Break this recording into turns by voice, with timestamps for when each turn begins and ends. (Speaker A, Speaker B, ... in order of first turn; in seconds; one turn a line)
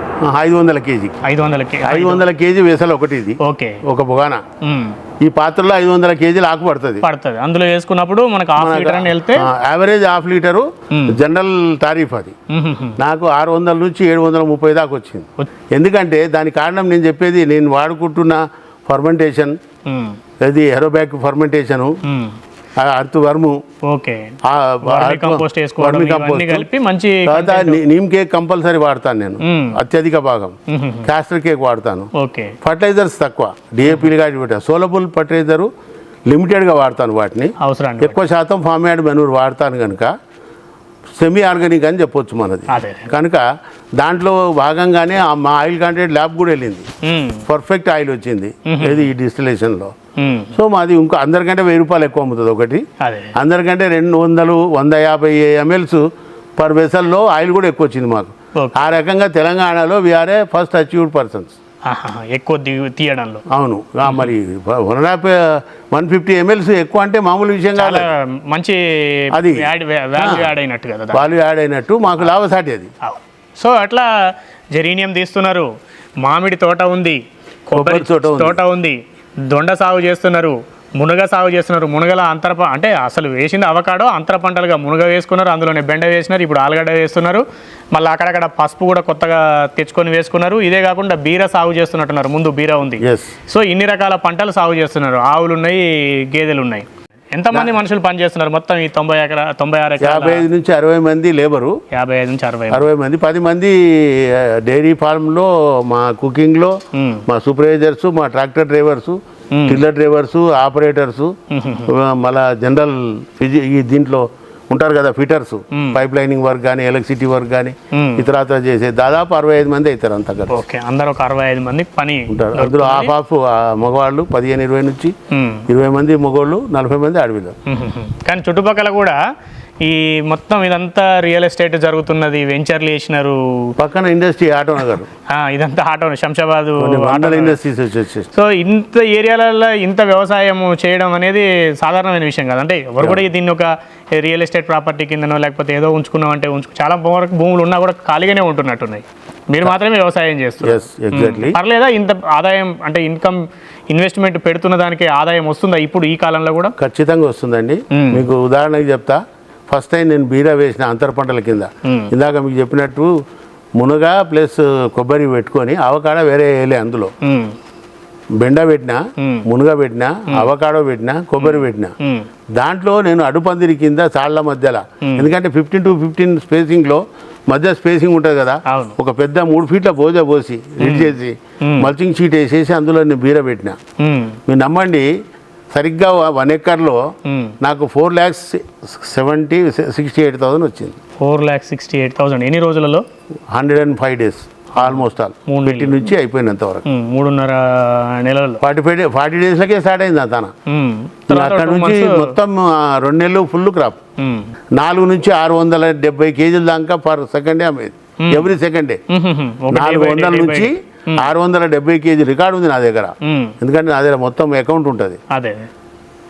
Speaker A: 0.2-1.2
Speaker B: 1.2-2.2
Speaker A: 1.8-4.4
Speaker B: 3.4-3.8
Speaker B: 4.6-5.0
Speaker A: 5.2-7.0
Speaker B: 7.0-9.4
Speaker A: 8.6-12.3
Speaker B: 10.9-11.2
Speaker B: 12.5-12.9
Speaker A: 13.0-19.6
Speaker B: 19.9-20.2
Speaker A: 20.4-21.9
Speaker B: 22.0-22.4
Speaker A: 22.8-23.6
Speaker B: 23.8-24.3
Speaker A: 24.4-26.7
Speaker B: 24.8-27.8
Speaker A: 27.2-32.1
Speaker B: 29.4-29.8
Speaker B: 30.7-31.1
Speaker B: 32.1-32.5
Speaker A: 32.6-35.7
Speaker A: 36.3-40.1
Speaker B: 37.6-38.2
Speaker A: 41.2-43.4
Speaker B: 42.7-43.1
Speaker A: 44.0-46.9
Speaker B: 47.0-47.4
Speaker A: 47.5-49.9
Speaker B: 48.6-49.1
Speaker B: 50.2-50.5
Speaker A: 50.5-52.8
Speaker B: 53.0-53.3
Speaker A: 53.4-56.0
Speaker A: 56.6-61.5
Speaker B: 61.8-63.4
Speaker A: 63.5-68.1
Speaker B: 64.0-64.3
Speaker B: 67.8-71.3
Speaker A: 69.3-70.5
Speaker A: 71.1-72.9
Speaker B: 73.0-75.7
Speaker B: 76.2-100.5
Speaker A: 77.7-78.6
Speaker A: 93.0-93.3
Speaker A: 100.0-101.8
Speaker B: 101.9-102.8
Speaker A: 102.7-106.8
Speaker B: 106.9-107.2
Speaker A: 107.3-111.3
Speaker B: 109.5-109.8
Speaker B: 111.5-111.9
Speaker A: 111.9-120.6
Speaker B: 115.7-116.0
Speaker B: 117.9-118.3
Speaker B: 120.5-123.1
Speaker A: 122.3-125.1
Speaker B: 125.3-125.7
Speaker A: 125.7-127.5
Speaker B: 127.7-129.2
Speaker B: 129.8-133.7
Speaker A: 133.8-135.1
Speaker B: 135.3-137.6
Speaker A: 136.8-138.3
Speaker B: 138.3-156.7
Speaker A: 150.6-151.6
Speaker A: 156.8-159.2
Speaker B: 157.9-158.3
Speaker A: 159.7-163.1
Speaker B: 161.8-162.1
Speaker A: 163.8-167.1
Speaker B: 167.2-167.5
Speaker A: 168.4-171.9
Speaker B: 171.4-172.3
Speaker A: 172.6-183.8
Speaker B: 175.0-175.3
Speaker B: 178.7-178.9
Speaker B: 180.8-181.9
Speaker B: 184.0-184.4
Speaker A: 184.5-185.1
Speaker A: 185.7-187.1
Speaker B: 187.2-187.5
Speaker A: 187.6-191.0
Speaker B: 191.2-193.0
Speaker A: 193.5-196.8
Speaker B: 194.8-196.1
Speaker B: 196.8-198.6
Speaker A: 198.6-200.5
Speaker B: 200.7-202.4
Speaker A: 201.3-204.0
Speaker B: 204.2-204.5
Speaker A: 204.8-209.0
Speaker B: 208.2-208.5
Speaker B: 209.1-211.3
Speaker A: 209.7-215.2
Speaker B: 213.2-213.5
Speaker B: 215.3-215.7